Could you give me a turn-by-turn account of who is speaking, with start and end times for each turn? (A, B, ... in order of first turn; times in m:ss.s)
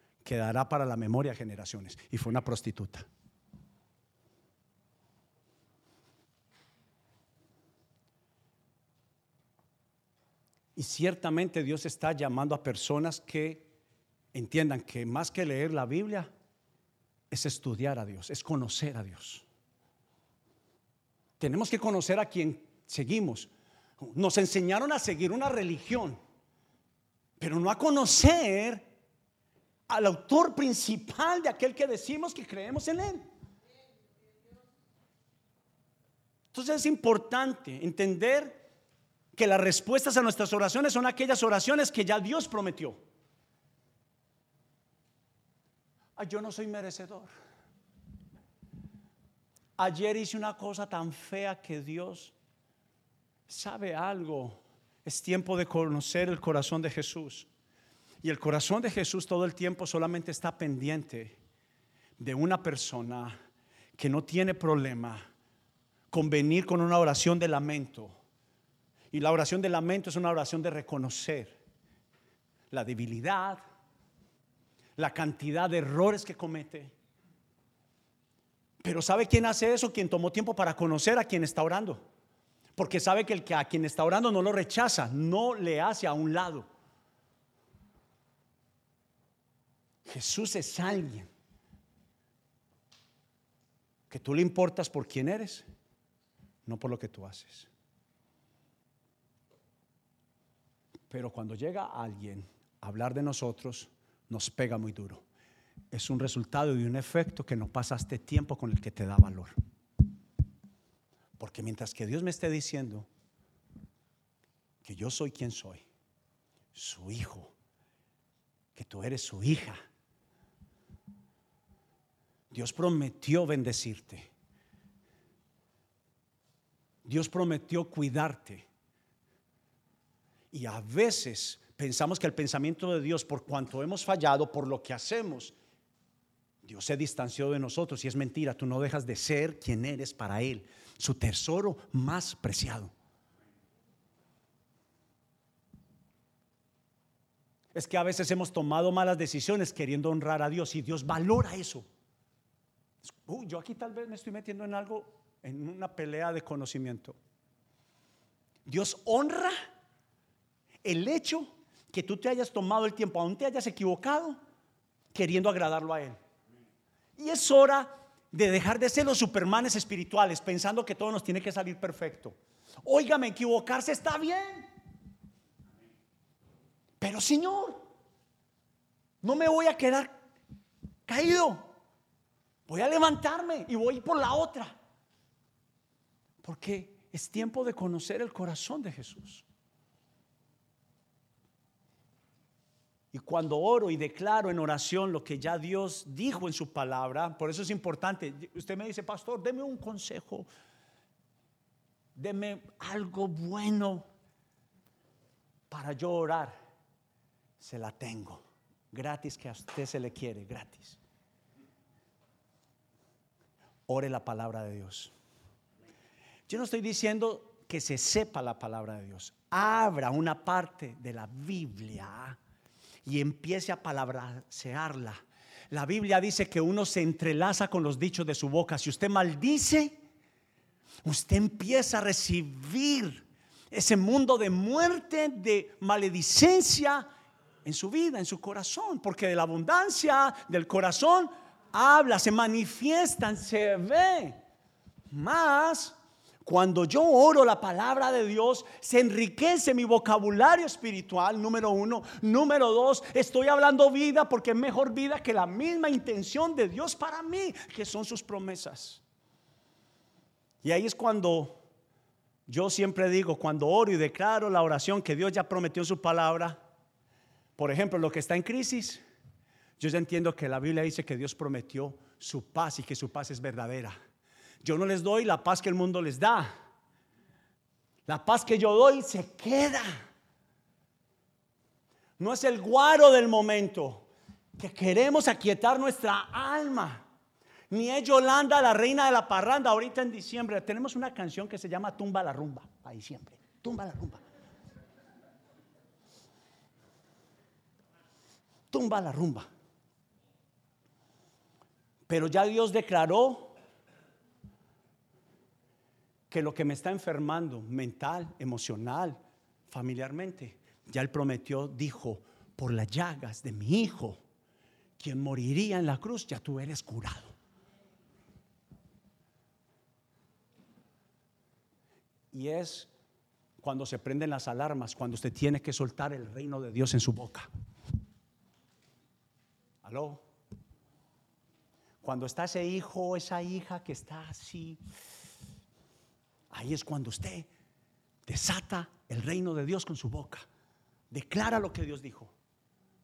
0:00.2-0:03.1 A
0:10.8-0:13.7 A
0:14.3-0:16.3 A
0:17.3-0:19.5 A
0:21.4-0:26.2 A
0:27.4-0:28.9 A
0:29.9-0:33.3 A
0:36.5-0:38.6 A
0:39.3-0:43.0 A
0:46.2-0:47.3 A
0:49.8-0:52.4 A
0:53.5-0:57.5 A
0:58.2-1:01.4 A
1:02.2-1:03.4 A
1:04.0-1:05.2 A
1:06.1-1:08.2 A
1:09.1-1:11.6 A
1:12.7-1:13.6 A
1:15.0-1:17.0 A
1:18.8-1:22.0 A
1:22.8-1:26.7 A
1:30.0-1:31.3 A
1:34.1-1:35.7 A
1:36.7-1:37.7 A
1:41.1-1:45.2 A
1:45.9-1:49.6 A
1:51.4-1:53.1 A
1:54.8-1:55.8 A
1:56.7-1:57.5 A
1:58.8-1:59.8 A
2:02.5-2:04.3 A
2:07.0-2:08.7 A
2:10.5-2:15.6 A
2:16.6-2:22.9 A
2:27.7-2:31.8 A
2:33.0-2:37.2 A
2:38.7-2:39.6 A
2:40.8-2:44.4 A
2:45.1-2:46.2 A
2:47.2-2:54.7 A
2:57.0-2:57.8 A
2:59.2-3:00.2 A
3:01.1-3:01.7 A
3:02.7-3:04.8 A
3:06.4-3:09.4 A
3:13.1-3:20.5 A
3:22.2-3:24.1 A
3:25.7-3:26.6 A
3:27.6-3:31.0 A
3:33.9-3:35.1 A
3:36.5-3:42.4 A
3:43.0-3:50.0 A
3:51.0-3:57.1 A
3:57.6-4:04.4 A
4:05.1-4:19.0 A
4:20.6-4:21.6 A
4:22.5-4:26.6 A
4:27.6-4:29.0 A
4:29.8-4:34.0 A
4:34.6-4:36.5 A
4:38.1-4:40.0 A
4:42.2-4:47.1 A
4:47.7-4:54.2 A
4:58.7-4:59.5 A
5:02.1-5:03.6 A
5:06.3-5:14.2 A
5:15.0-5:17.4 A
5:22.3-5:22.9 A
5:23.6-5:27.5 A
5:29.8-5:30.2 A
5:32.0-5:34.8 A
5:36.5-5:37.5 A
5:38.3-5:40.5 A
5:41.1-5:42.3 A